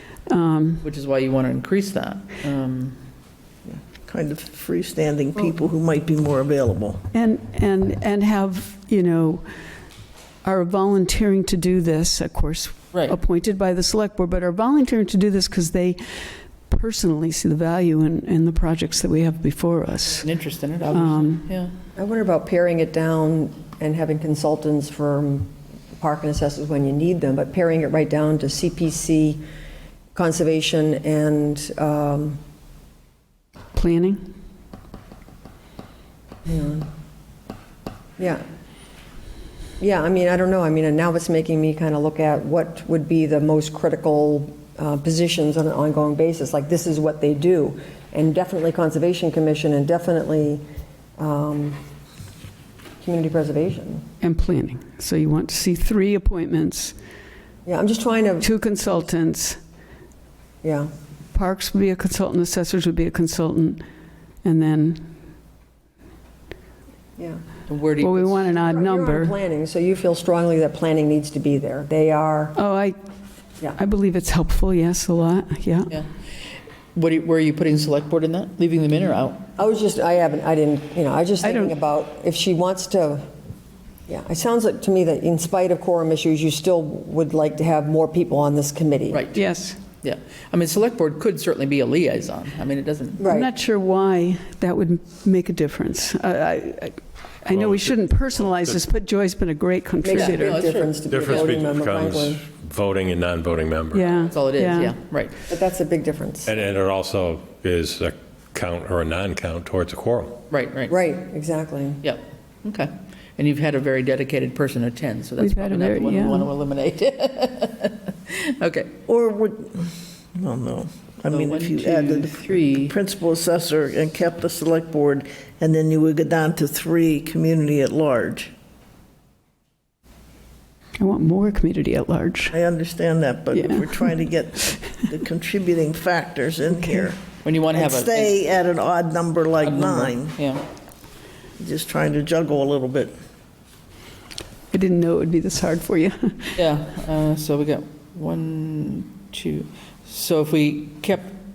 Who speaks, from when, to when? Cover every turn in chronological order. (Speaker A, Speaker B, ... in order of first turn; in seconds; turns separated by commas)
Speaker A: 0.3-0.9, Speaker B: 0.8-3.0, Speaker C: 3.7-7.0, Speaker A: 7.1-9.5, Speaker A: 10.4-20.3, Speaker B: 20.2-21.7, Speaker A: 20.9-21.5, Speaker D: 22.0-29.4, Speaker D: 30.1-32.4, Speaker A: 33.8-34.2, Speaker D: 36.5-36.9, Speaker D: 39.8-50.6, Speaker D: 51.2-51.8, Speaker D: 53.0-54.0, Speaker A: 54.2-57.0, Speaker D: 57.7-58.5, Speaker A: 58.4-59.6, Speaker D: 60.6-60.9, Speaker A: 61.3-63.8, Speaker A: 64.4-65.1, Speaker B: 67.7-68.4, Speaker A: 68.0-69.3, Speaker D: 68.5-72.6, Speaker A: 72.6-73.0, Speaker A: 73.8-76.0, Speaker B: 77.0-79.5, Speaker D: 79.6-83.3, Speaker A: 81.4-81.8, Speaker D: 84.1-89.2, Speaker B: 89.1-89.5, Speaker A: 89.3-89.8, Speaker B: 90.0-93.2, Speaker D: 93.2-93.5, Speaker A: 93.3-100.7, Speaker E: 97.5-98.8, Speaker D: 100.0-102.4, Speaker B: 100.1-101.5, Speaker E: 101.1-104.1, Speaker A: 103.9-105.0, Speaker B: 104.3-105.3, Speaker D: 105.5-106.5, Speaker E: 106.5-110.4, Speaker B: 110.5-110.9, Speaker D: 110.9-112.0, Speaker B: 112.0-118.9, Speaker A: 115.4-116.5, Speaker C: 119.1-128.5, Speaker B: 121.3-123.0, Speaker A: 131.0-132.6, Speaker C: 132.5-140.4, Speaker A: 133.5-134.3, Speaker A: 136.8-137.1, Speaker B: 137.4-138.4, Speaker B: 139.6-140.6, Speaker C: 141.6-143.2, Speaker A: 144.7-146.6, Speaker B: 146.6-151.4